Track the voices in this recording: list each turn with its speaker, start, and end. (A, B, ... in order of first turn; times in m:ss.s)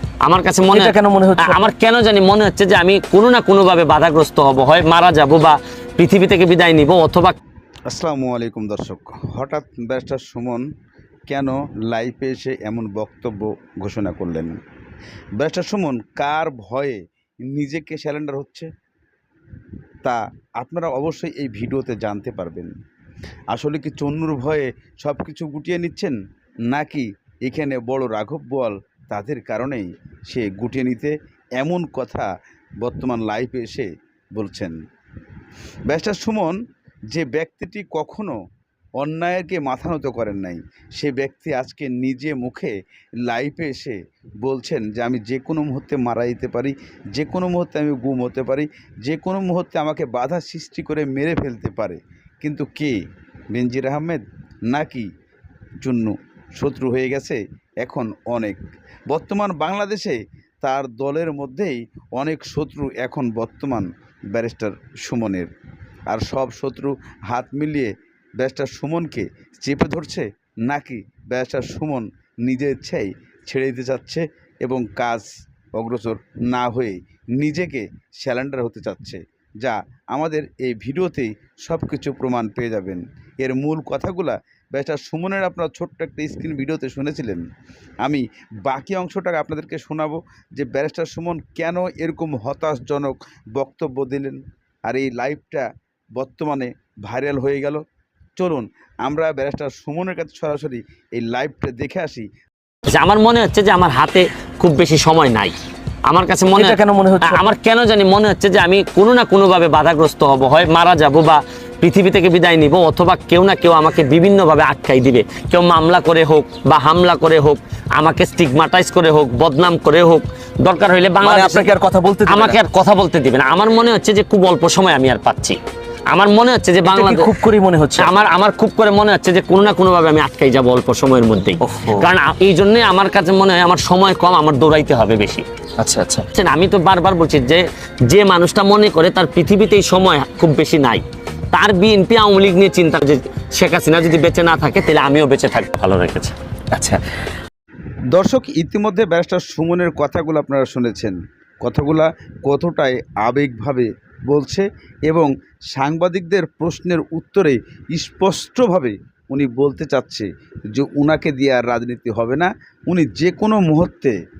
0:00.2-0:07.4 A
0:00.7-0:01.6 B
0:07.9-0:10.6 C
0:11.3-0:14.6 C
0:15.4-0:18.7 C
0:20.0-0:22.7 C
0:23.5-0:26.2 C
0:26.7-0:32.3 C
0:32.8-0:34.8 C
0:35.9-0:38.4 C
0:39.0-0:53.0 C
0:53.5-0:55.1 C
0:55.8-1:05.5 C
1:06.1-1:27.4 C
1:28.0-1:35.6 C
1:36.2-1:37.8 C
1:38.4-1:42.3 C
1:42.9-1:45.5 A
1:46.1-2:01.7 A
1:46.6-1:47.4 B
2:01.2-2:02.6 B
2:02.3-2:05.6 A
2:06.1-2:07.3 A
2:06.8-2:08.1 B
2:08.0-2:15.4 A
2:11.6-2:12.1 B
2:15.8-2:16.2 B
2:16.3-2:26.4 A
2:26.7-2:27.0 B
2:28.1-2:44.2 C